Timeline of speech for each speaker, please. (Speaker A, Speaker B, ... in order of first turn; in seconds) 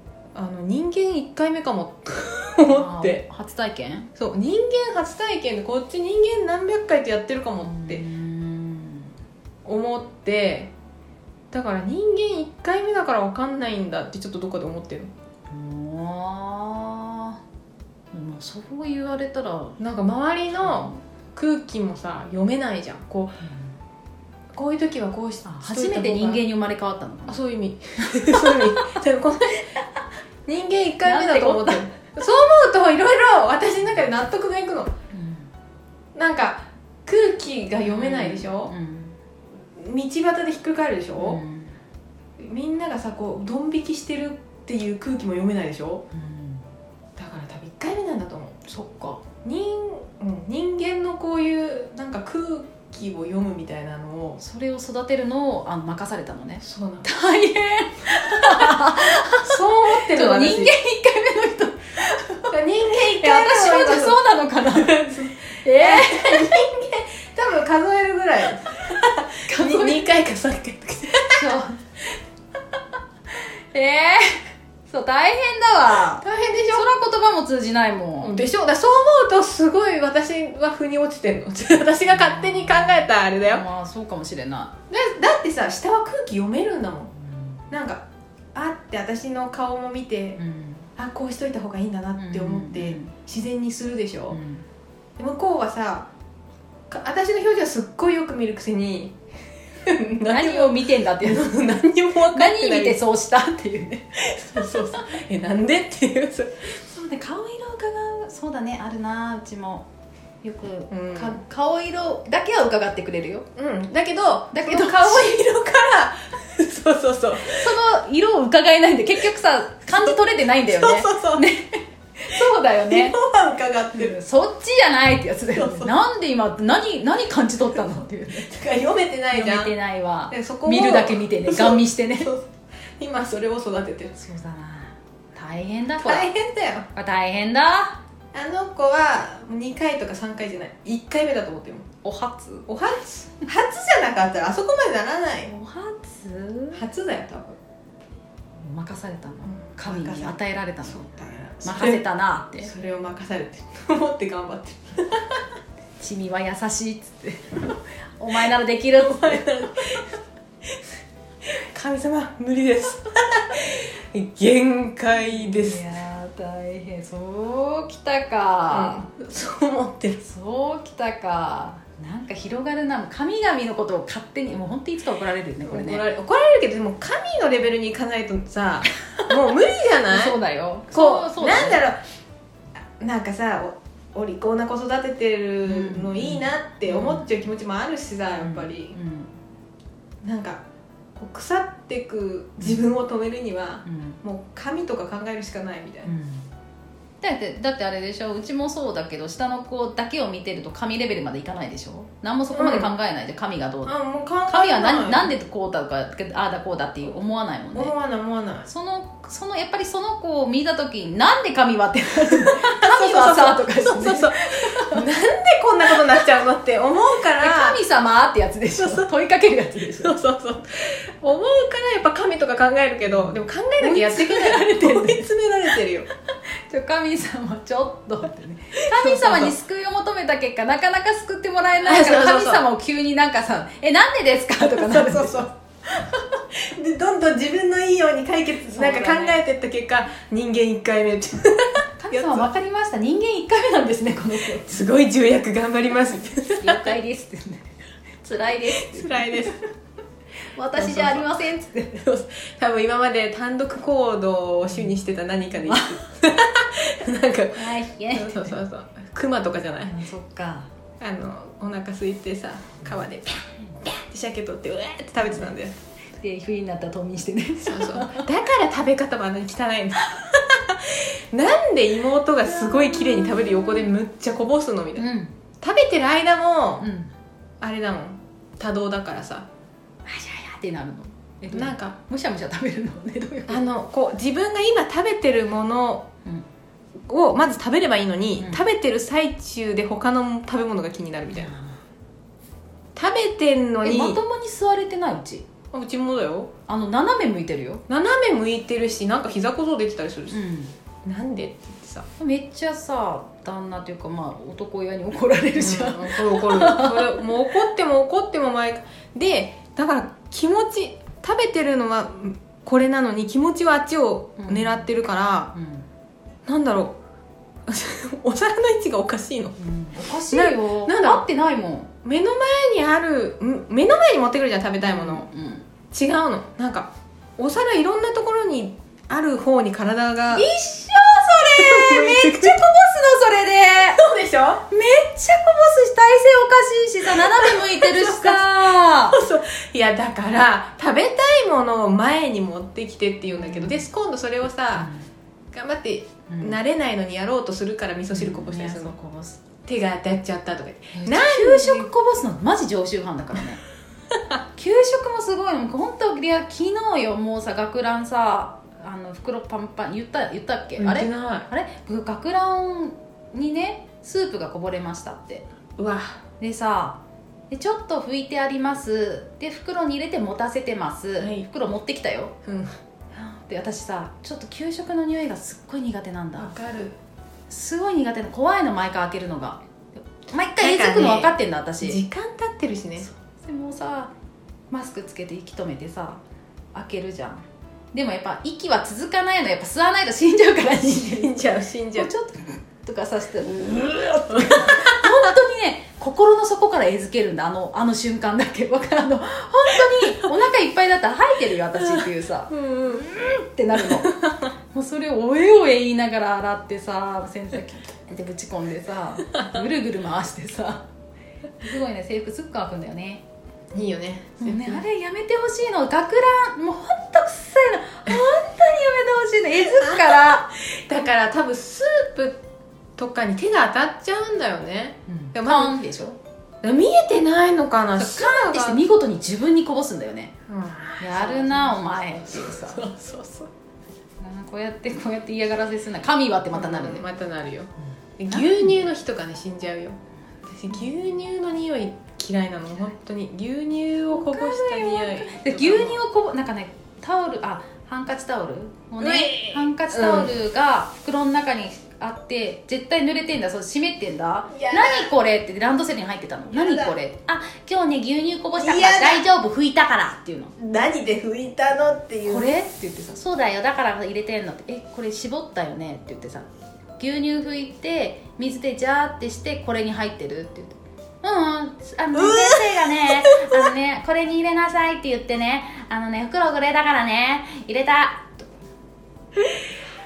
Speaker A: 0.3-3.2, 4.2-8.1, 9.7-10.7, 11.5-15.1, 19.8-23.4, 24.5-26.4, 27.3-29.7, 30.5-34.9, 36.1-38.7, 39.7-41.4, 42.4-46.1, 47.2-48.6, 49.4-54.4, 56.6-57.1, 58.3-60.8, 62.5-71.5, 76.2-76.9, 78.2-83.7, 84.9-87.1, 87.7-90.4, 91.0-94.4, 95.2-96.1, 96.9-99.2, 99.8-103.0, 104.2-106.7, 110.9-111.4, 113.6-117.8, 120.0-121.5, 122.3-124.2, 125.5-126.0, 128.4-129.7, 130.3-134.2, 136.0-136.9, 138.3-141.9, 142.7-145.5, 146.7-147.6, 149.5-152.0, 152.6-155.5, 159.0-160.8, 161.4-165.9, 168.7-170.2, 175.6-180.4, 180.9-182.0, 183.0-188.9, 190.2-190.6, 191.2-196.1, 202.5-202.9, 203.9-205.3, 207.7-208.7, 212.2-217.8, 218.7-219.1, 220.0-226.1, 228.8-229.6, 231.8-232.7, 234.6-242.5, 244.5-247.0, 248.7-249.6, 250.8-251.4, 251.9-260.0, 261.0-265.8, 267.6-275.1, 275.6-276.9, 277.6-279.5, 281.5-282.0, 283.5-286.1, 287.0-291.6, 292.9-294.2, 295.7-296.5, 297.9-300.4, 301.0-302.1, 305.6-315.5, 316.4-317.0, 317.7-319.6, 320.3-321.3, 322.0-325.3, 325.9-330.5, 331.4-332.7, 333.9-334.7, 337.1-344.9, 345.5-349.0, 349.6-351.9, 360.8-361.5, 365.8-366.2, 371.2-371.5, 372.4-372.7, 376.4-377.0, 380.6-383.1, 390.9-392.1, 394.3-395.2, 399.8-400.3, 401.8-403.1, 403.8-404.5, 413.7-414.8, 419.8-425.8, 426.6-428.8, 430.5-433.5, 436.5-446.0, 449.0-450.4, 454.5-455.1, 456.5-456.9, 458.6-459.2, 460.6-462.5, 472.1-473.7, 479.3-479.7
Speaker B: 2.6-4.1, 7.7-9.1, 15.5-17.4, 18.1-19.8, 20.6-21.0, 25.4-27.4, 28.0-29.0, 31.0-31.9, 35.1-35.5, 37.8-39.2, 41.2-41.8, 46.1-46.6, 48.7-49.2, 54.4-66.6, 69.5-70.0, 71.3-71.8, 73.4-78.4, 82.1-84.8, 87.2-87.6, 90.4-90.9, 92.2-93.2, 94.3-94.7, 100.2-101.6, 102.3-105.0, 106.9-109.9, 110.4-113.5, 114.5-115.3, 117.4-123.2, 123.9-128.6, 129.3-132.3, 134.2-136.3, 136.9-138.0, 142.0-142.7, 145.5-146.8, 148.6-151.1, 151.6-152.7, 156.0-159.7, 165.4-169.1, 170.2-176.0, 180.1-181.8, 185.7-187.3, 188.4-189.3, 193.8-194.2, 196.1-196.5, 197.2-203.9, 204.5-207.9, 208.7-215.1, 217.3-220.2, 223.2-225.3, 226.7-235.5, 238.7-239.4, 242.0-244.8, 246.4-249.6, 250.5-252.1, 255.7-256.0, 257.5-258.6, 259.9-260.7, 266.2-268.3, 275.0-275.3, 276.8-277.1, 280.1-283.7, 291.3-291.8, 293.8-295.5, 296.7-297.8, 300.3-300.7, 302.2-307.5, 314.4-314.9, 315.5-315.9, 319.6-321.9, 324.8-325.7, 330.3-334.0, 334.7-339.2, 343.3-343.8, 344.8-345.1, 346.3-346.6, 348.1-349.4, 350.9-353.6, 354.6-365.5, 366.4-372.4, 373.1-376.6, 377.5-382.0, 383.0-384.1, 384.7-386.2, 386.7-391.4, 392.0-410.9, 411.6-413.2, 414.4-420.6, 425.1-426.2, 428.0-430.4, 431.0-432.9, 434.2-437.1, 438.3-438.7, 444.1-460.5, 462.3-466.5, 467.0-478.5